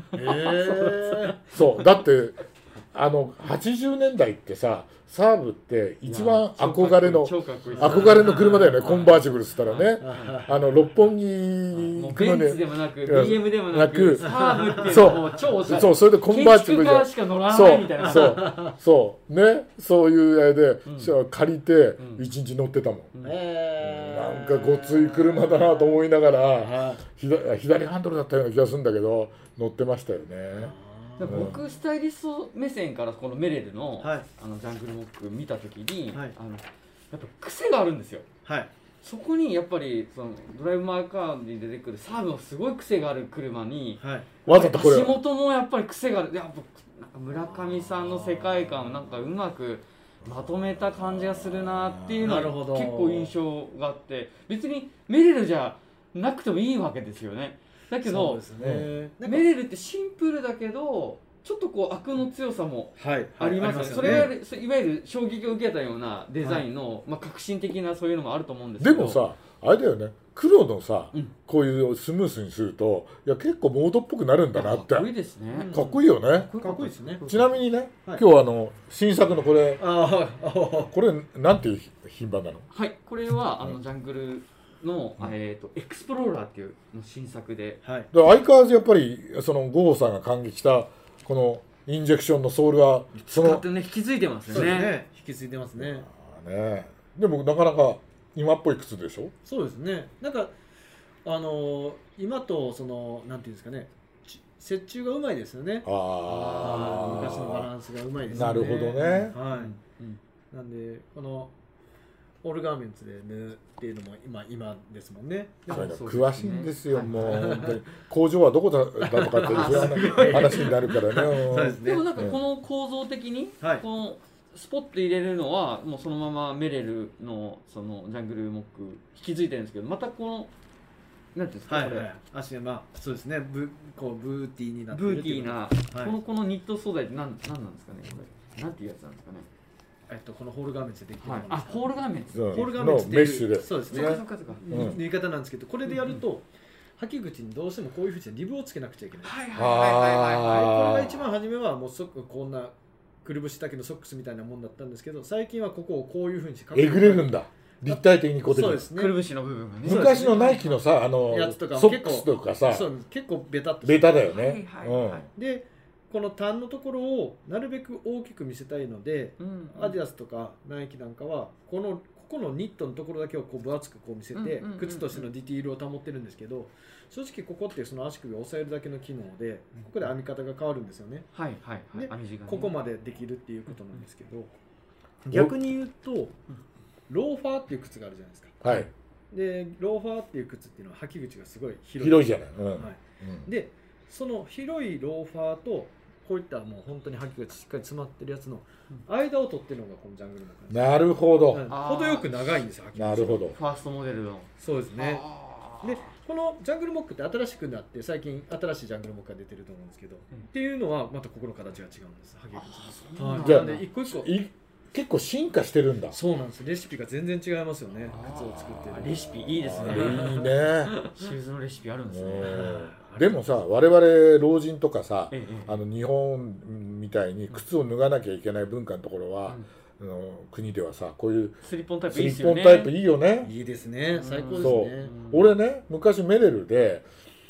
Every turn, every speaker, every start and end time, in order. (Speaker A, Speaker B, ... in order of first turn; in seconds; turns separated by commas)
Speaker A: 0.1-1.8, Speaker B: 0.1-1.4, Speaker C: 1.5-23.1, Speaker A: 6.0-10.4, Speaker B: 7.8-8.9, Speaker B: 10.0-10.8, Speaker A: 11.8-18.5, Speaker B: 14.2-15.4, Speaker B: 18.0-18.7, Speaker A: 20.9-21.1, Speaker A: 22.0-22.2, Speaker B: 23.2-25.9, Speaker C: 23.8-31.6, Speaker B: 26.6-27.0, Speaker B: 30.6-31.6, Speaker A: 31.2-38.3, Speaker B: 34.0-34.2, Speaker B: 38.4-38.7, Speaker A: 39.0-58.4, Speaker B: 44.0-44.3, Speaker C: 44.5-45.2, Speaker C: 51.0-52.4, Speaker B: 52.2-53.3, Speaker B: 58.0-59.5, Speaker C: 58.6-58.9, Speaker A: 59.2-69.2, Speaker B: 63.0-64.3, Speaker C: 63.9-64.3, Speaker C: 68.8-75.1, Speaker A: 74.5-77.6, Speaker B: 75.5-77.2, Speaker C: 75.7-76.5, Speaker C: 77.2-79.8, Speaker B: 79.8-80.9, Speaker C: 80.9-82.7, Speaker A: 82.7-87.8, Speaker B: 87.8-88.1, Speaker C: 88.1-93.7, Speaker A: 93.3-94.9, Speaker B: 94.5-96.1, Speaker C: 95.8-99.3, Speaker B: 99.4-100.5, Speaker B: 101.2-109.7, Speaker C: 105.8-107.7, Speaker A: 106.3-107.3, Speaker A: 108.3-110.2, Speaker C: 108.3-109.4, Speaker B: 110.5-111.5, Speaker B: 112.4-116.0, Speaker A: 115.7-117.8, Speaker C: 115.7-122.4, Speaker B: 117.1-117.8, Speaker B: 119.0-122.1, Speaker A: 119.4-130.5, Speaker A: 131.3-132.1, Speaker B: 131.7-136.2, Speaker A: 134.9-139.5, Speaker B: 140.1-142.0, Speaker A: 141.2-142.7, Speaker C: 142.3-145.0, Speaker B: 142.5-149.4, Speaker A: 143.8-144.6, Speaker A: 145.9-146.2, Speaker A: 149.2-150.6, Speaker C: 149.5-151.2, Speaker B: 150.4-157.3, Speaker C: 156.7-158.9, Speaker B: 157.9-159.1, Speaker A: 158.9-160.8, Speaker B: 159.8-160.6, Speaker C: 159.8-162.9, Speaker B: 161.3-164.2, Speaker C: 163.8-165.3, Speaker A: 164.2-165.2, Speaker B: 165.3-181.3, Speaker A: 169.4-170.0, Speaker A: 174.3-175.3, Speaker A: 181.3-182.8, Speaker B: 181.9-184.5, Speaker B: 185.2-186.3, Speaker C: 185.3-185.5, Speaker B: 187.1-188.6, Speaker C: 188.6-188.9, Speaker B: 189.3-203.5, Speaker C: 192.0-193.5, Speaker C: 200.7-201.7, Speaker A: 201.7-202.6, Speaker C: 202.9-203.6, Speaker A: 203.5-206.1, Speaker B: 204.6-205.3, Speaker B: 205.8-214.3, Speaker A: 212.5-213.8, Speaker C: 213.4-216.2, Speaker B: 216.1-219.3, Speaker A: 218.1-222.8, Speaker C: 219.1-221.0, Speaker B: 219.8-221.2, Speaker C: 222.1-233.5, Speaker B: 222.4-223.4, Speaker A: 225.3-225.8, Speaker A: 231.6-232.9, Speaker B: 233.4-235.2, Speaker A: 234.1-235.5, Speaker C: 234.6-237.1